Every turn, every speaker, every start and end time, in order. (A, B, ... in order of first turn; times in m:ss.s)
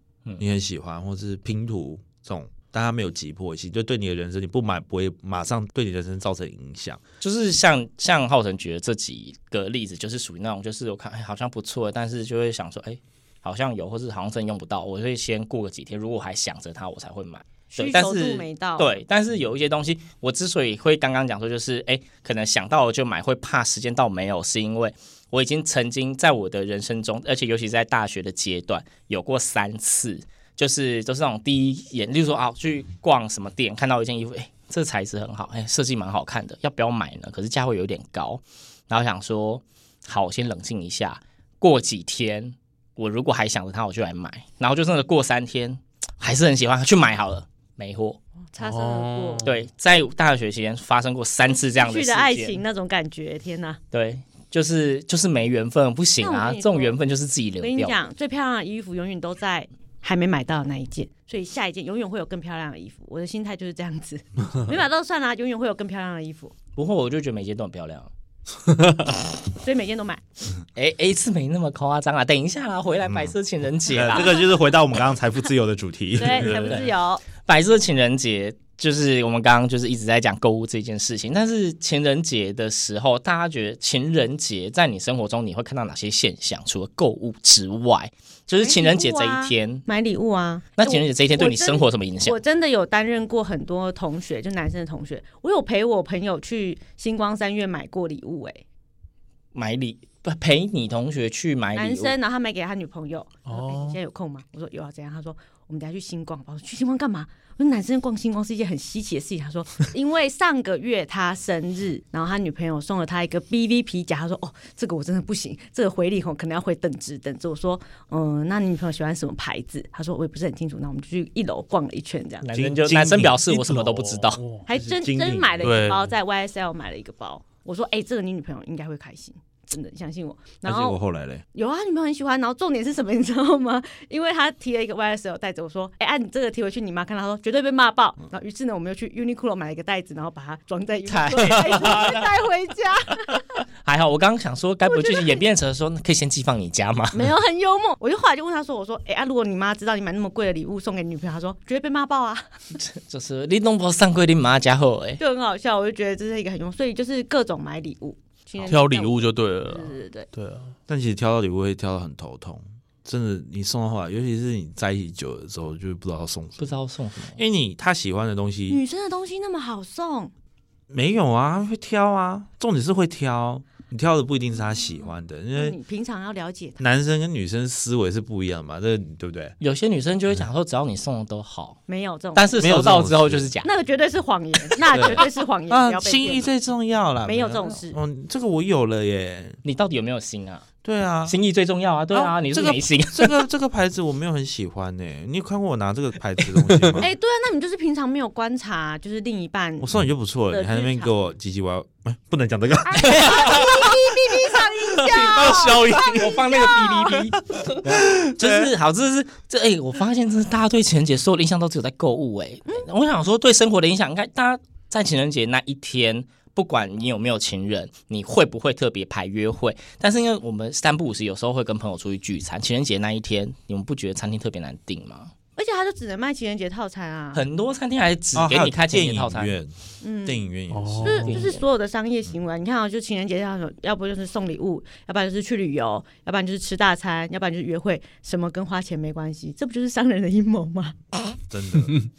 0:00.4-0:07.0 A
0:07.2-0:48.2 B
0:17.7-0:19.0 C
0:48.4-0:49.5 C
0:48.6-0:49.6 D
0:49.4-0:52.6 B
0:51.5-0:53.8 C
0:53.9-0:58.0 B
0:56.2-0:57.0 C
0:57.6-1:06.5 C
1:06.8-1:08.1 B
1:09.6-1:10.2 C
1:10.8-1:14.3 B
1:13.0-1:13.3 A
1:13.9-1:16.8 A
1:14.0-1:14.4 C
1:16.2-1:17.2 C
1:16.5-1:16.9 B
1:17.4-1:29.8 B
1:28.6-1:38.6 C
1:30.8-1:32.4 B
1:39.5-1:42.1 B
1:41.7-2:02.4 C
1:43.5-1:44.0 D
2:02.4-2:04.4 B
2:02.5-2:03.9 A
2:04.0-2:04.6 D
2:04.6-2:11.0 C
2:04.7-2:05.8 A
2:05.6-2:06.0 D
2:10.6-2:11.4 A
2:11.5-2:23.6 C
2:21.0-2:22.3 B
2:23.8-2:27.3 B
2:24.8-2:25.4 C
2:27.1-2:32.4 C
2:32.7-2:35.2 B
2:35.2-2:40.3 C
2:38.7-2:40.7 D
2:40.9-2:46.7 A
2:46.6-2:47.4 B
2:47.3-2:48.8 A
2:48.7-2:50.3 C
2:50.9-2:55.8 A
2:55.5-2:56.8 C
2:56.8-2:59.6 A
2:59.6-3:01.8 B
3:01.9-3:02.6 C
3:02.3-3:03.7 B
3:02.6-3:03.5 A
3:03.6-3:06.5 C
3:04.9-3:09.6 A
3:07.2-3:08.0 C
3:09.6-3:10.6 B
3:10.8-3:11.4 A
3:11.2-3:13.5 B
3:12.1-3:17.1 A
3:17.0-3:19.9 C
3:19.8-3:23.5 A
3:20.5-3:21.1 C
3:22.9-3:27.1 C
3:23.0-3:23.5 B
3:25.1-3:26.3 D
3:25.1-3:45.3 B
3:27.6-3:28.7 A
3:45.6-3:47.4 C
3:47.3-3:49.6 B
3:48.3-3:51.4 A
3:50.0-3:50.5 C
3:50.7-3:51.4 D
3:51.0-4:00.9 C
3:51.2-3:51.6 B
4:01.5-4:01.9 A